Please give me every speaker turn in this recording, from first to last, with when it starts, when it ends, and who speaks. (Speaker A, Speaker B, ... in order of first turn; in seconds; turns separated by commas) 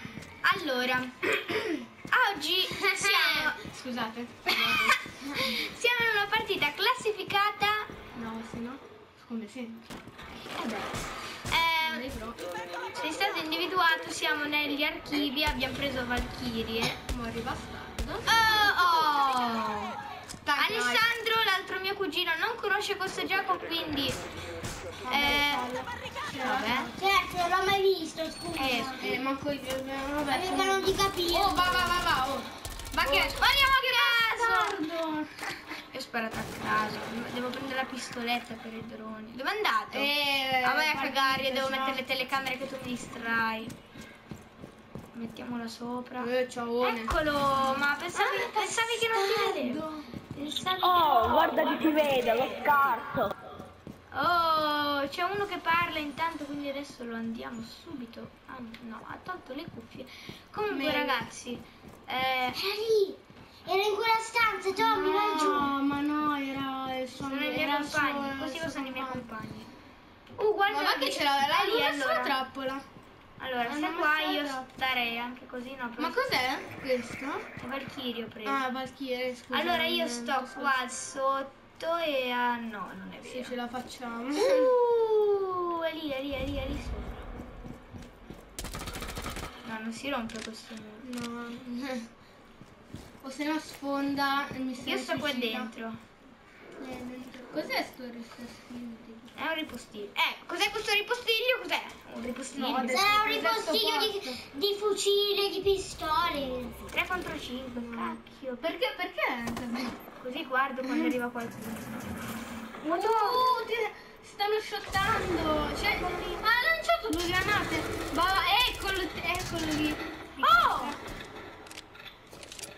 Speaker A: 0.4-1.4, Speaker A: 2.1-3.6, Speaker B: 3.0-5.6, Speaker A: 4.5-7.9, Speaker B: 8.1-9.9, Speaker A: 10.6-12.1, Speaker B: 11.8-12.4, Speaker A: 12.9-17.0, Speaker B: 17.1-18.3, Speaker A: 18.3-19.9, Speaker B: 20.4-21.1, Speaker A: 20.6-24.2, Speaker B: 25.0-27.0, Speaker A: 25.1-25.7, Speaker A: 26.4-26.9, Speaker C: 27.0-29.1, Speaker A: 28.6-29.1, Speaker B: 29.0-32.5, Speaker C: 30.3-31.9, Speaker A: 32.9-34.8, Speaker B: 33.0-35.4, Speaker A: 35.9-43.7, Speaker B: 39.9-42.0, Speaker A: 45.1-51.7, Speaker B: 46.2-47.1, Speaker B: 48.1-50.2, Speaker D: 51.0-53.3, Speaker A: 54.1-62.6, Speaker B: 60.7-61.2, Speaker C: 62.5-65.7, Speaker B: 64.8-69.3, Speaker A: 65.4-65.7, Speaker A: 67.2-69.7, Speaker A: 70.4-72.4, Speaker B: 70.7-72.8, Speaker A: 73.4-76.2, Speaker B: 73.6-74.7, Speaker B: 76.0-77.4, Speaker A: 77.6-78.7, Speaker B: 78.5-80.8, Speaker A: 79.5-83.5, Speaker B: 83.2-84.7, Speaker A: 84.4-87.2, Speaker A: 89.6-91.1, Speaker B: 91.0-92.1, Speaker B: 93.2-95.7, Speaker A: 94.8-96.0, Speaker B: 96.8-99.3, Speaker A: 99.4-103.0, Speaker B: 102.5-104.4, Speaker C: 102.8-106.8, Speaker A: 106.9-108.7, Speaker B: 107.7-110.0, Speaker A: 110.2-111.8, Speaker B: 110.8-111.1, Speaker B: 112.8-121.0, Speaker A: 112.8-113.4, Speaker A: 116.0-116.5, Speaker A: 120.4-121.0